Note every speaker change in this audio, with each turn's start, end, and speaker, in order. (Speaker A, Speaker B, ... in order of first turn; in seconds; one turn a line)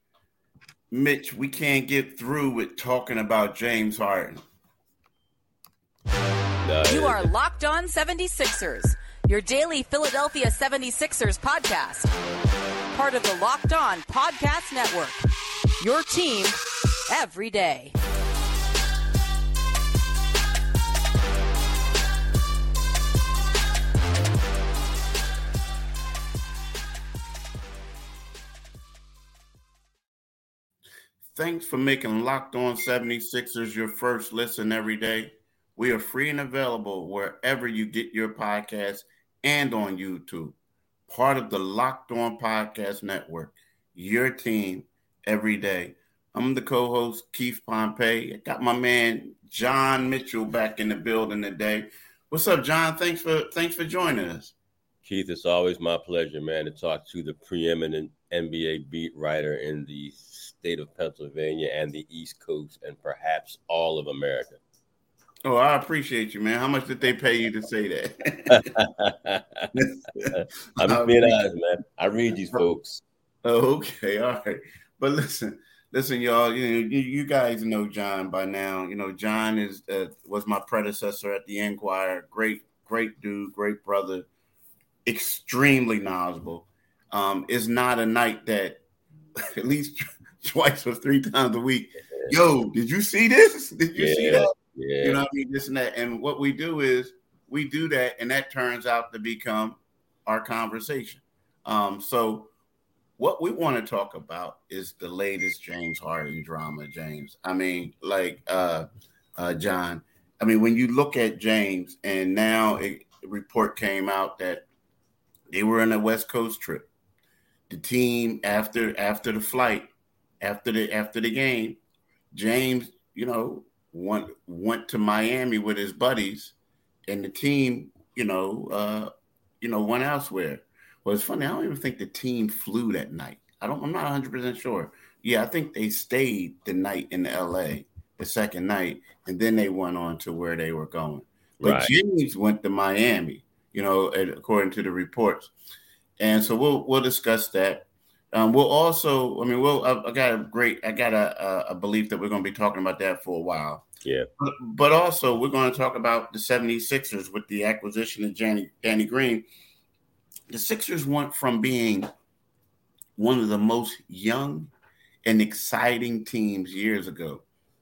Speaker A: 0.9-4.4
Speaker B: 6.6-7.3
Speaker C: 6.9-12.1
Speaker C: 12.9-15.2
Speaker C: 15.8-16.6
Speaker C: 17.1-17.9
Speaker A: 31.3-40.5
Speaker A: 41.1-54.5
Speaker B: 55.0-64.6
Speaker A: 65.4-68.7
Speaker B: 68.5-69.7
Speaker A: 69.7-71.4
Speaker B: 70.3-73.0
Speaker A: 73.4-84.3
Speaker A: 85.0-88.8
Speaker A: 89.5-102.5
Speaker B: 94.0-95.2
Speaker A: 103.2-114.6
Speaker A: 115.5-116.9
Speaker A: 117.7-119.9
Speaker A: 120.4-121.8
Speaker A: 122.3-126.5
Speaker A: 127.1-145.5
Speaker B: 141.6-141.9
Speaker A: 146.2-153.9
Speaker A: 154.4-159.4
Speaker A: 160.5-162.1
Speaker A: 163.2-164.7
Speaker A: 165.2-167.4